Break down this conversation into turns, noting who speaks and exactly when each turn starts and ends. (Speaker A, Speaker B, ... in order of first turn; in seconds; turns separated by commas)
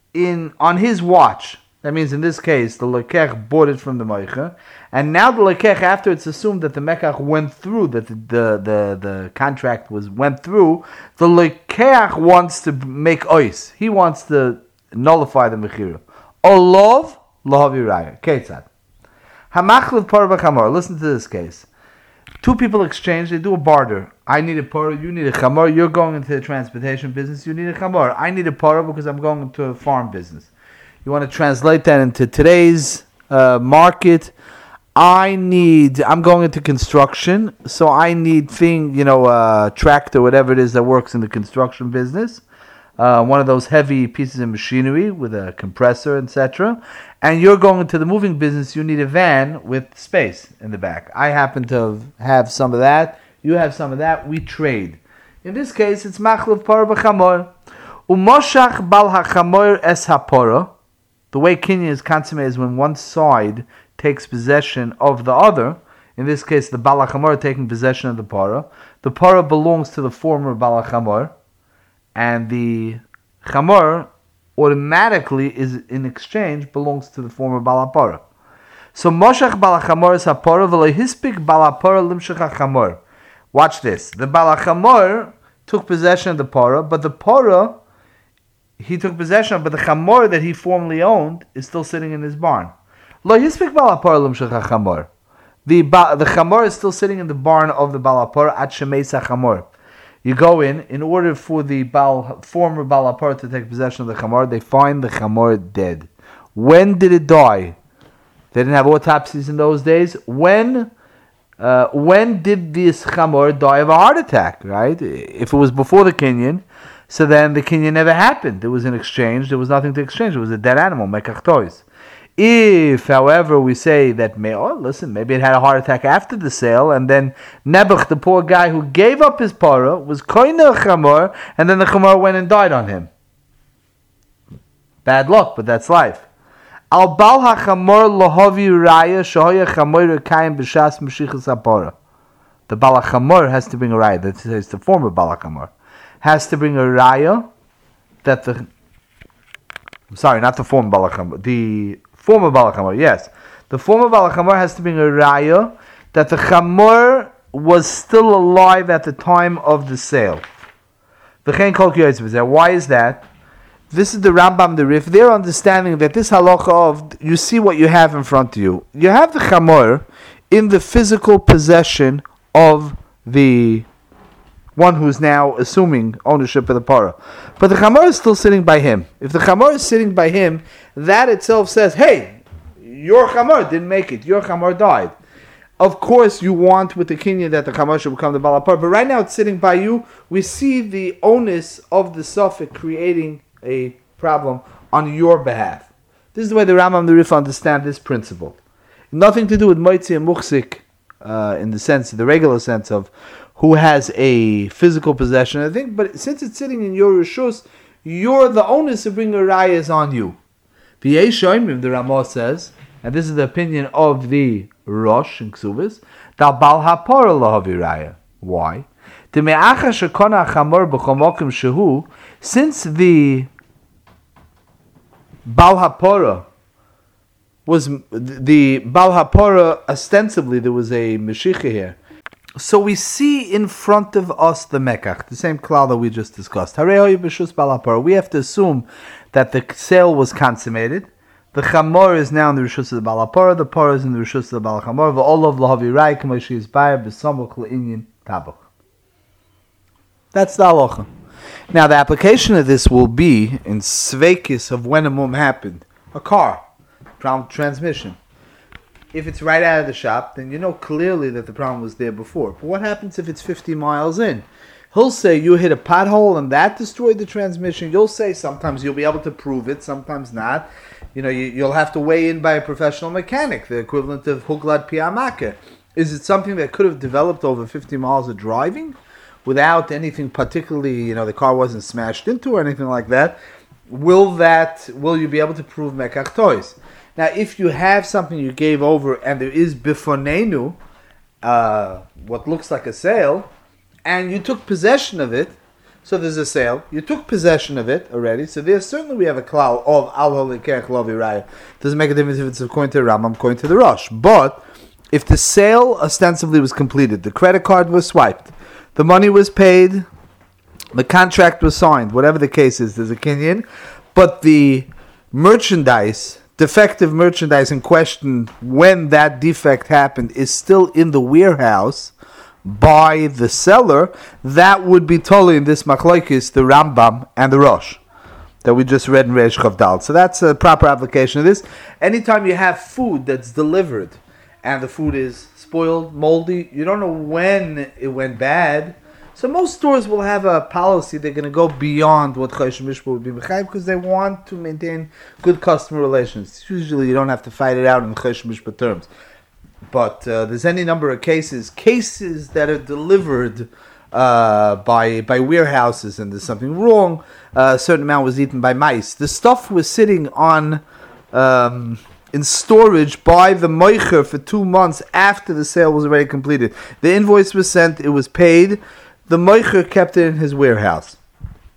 Speaker A: 0.1-18.7, Speaker A: 19.5-21.7, Speaker A: 22.4-30.5, Speaker A: 31.0-34.3, Speaker A: 35.0-42.4, Speaker A: 43.0-57.5, Speaker A: 58.1-60.7, Speaker A: 61.3-71.3, Speaker A: 72.1-78.2, Speaker A: 78.9-83.0, Speaker A: 83.5-87.8, Speaker A: 88.8-92.7, Speaker A: 93.2-95.1, Speaker A: 95.6-99.7, Speaker A: 100.2-107.8, Speaker A: 108.5-110.9, Speaker A: 111.6-121.8, Speaker A: 122.4-133.1, Speaker A: 135.0-136.3, Speaker A: 136.9-141.9, Speaker A: 142.7-147.5, Speaker A: 148.2-148.7, Speaker A: 150.1-160.4, Speaker A: 161.4-163.2, Speaker A: 163.9-173.9, Speaker A: 174.8-185.1, Speaker A: 185.8-198.6, Speaker A: 199.1-210.4, Speaker A: 211.0-223.5, Speaker A: 225.4-226.4, Speaker A: 227.7-232.0, Speaker A: 232.6-248.6, Speaker A: 250.3-251.1, Speaker A: 251.7-256.6, Speaker A: 257.2-258.2, Speaker A: 259.1-290.8, Speaker A: 291.4-293.5, Speaker A: 294.0-304.6, Speaker A: 305.1-310.0, Speaker A: 310.9-322.1, Speaker A: 322.6-328.0, Speaker A: 328.6-349.1, Speaker A: 349.9-371.2